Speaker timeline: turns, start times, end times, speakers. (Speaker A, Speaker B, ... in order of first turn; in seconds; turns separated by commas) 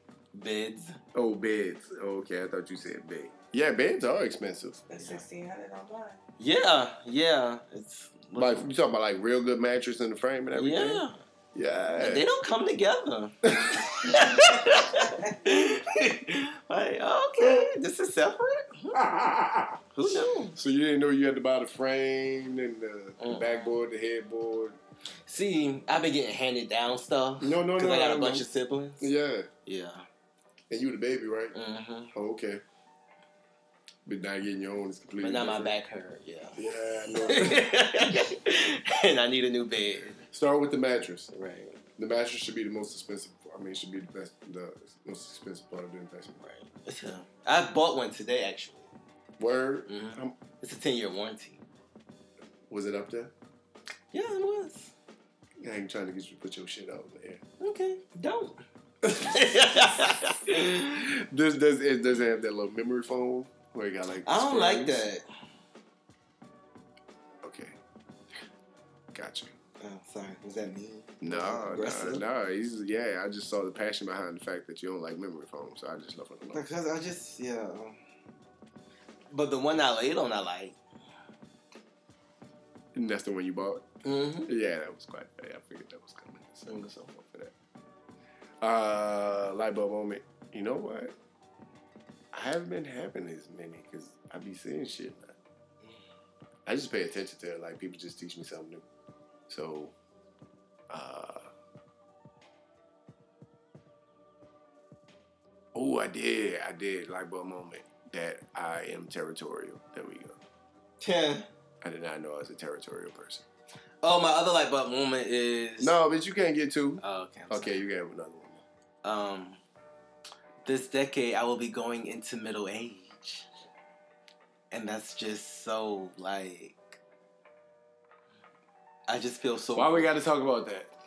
Speaker A: 0.3-1.0, Speaker B: 1.1-4.9, Speaker C: 4.9-6.2, Speaker A: 6.4-8.7, Speaker B: 8.3-12.3, Speaker A: 10.5-11.2, Speaker A: 12.0-19.1, Speaker B: 13.4-14.7, Speaker C: 14.3-15.2, Speaker B: 17.4-17.7, Speaker B: 18.9-24.8, Speaker A: 19.9-20.6, Speaker A: 23.2-23.8, Speaker A: 25.3-29.1, Speaker B: 27.4-28.4, Speaker B: 29.0-29.5, Speaker A: 29.6-30.1, Speaker B: 30.7-31.6, Speaker A: 31.5-32.1, Speaker B: 32.1-32.6, Speaker B: 34.0-35.7, Speaker A: 35.2-36.6, Speaker B: 36.5-38.2, Speaker A: 37.2-40.2, Speaker B: 40.3-41.3, Speaker A: 41.3-41.8, Speaker B: 42.0-46.4, Speaker A: 46.4-48.9, Speaker B: 49.4-50.4, Speaker A: 49.9-51.6, Speaker B: 52.7-53.3, Speaker A: 54.1-54.9, Speaker B: 55.6-57.4, Speaker A: 57.6-61.1, Speaker B: 59.0-65.1, Speaker A: 64.2-65.2, Speaker B: 67.4-67.8, Speaker B: 69.1-69.5, Speaker A: 69.8-72.2, Speaker B: 71.2-76.6, Speaker A: 76.5-78.0, Speaker A: 79.3-80.8, Speaker B: 82.9-83.9, Speaker A: 84.0-84.5, Speaker B: 84.5-87.5, Speaker B: 88.6-91.1, Speaker B: 92.3-95.4, Speaker B: 96.7-98.8, Speaker B: 99.5-99.9, Speaker B: 100.9-101.5, Speaker B: 105.7-110.4, Speaker A: 111.0-111.5, Speaker B: 111.8-113.4, Speaker A: 114.0-116.0, Speaker B: 115.8-118.6, Speaker A: 117.0-117.8, Speaker A: 119.0-119.6, Speaker A: 120.6-123.5, Speaker A: 124.7-127.0, Speaker A: 129.1-130.1, Speaker B: 129.7-130.9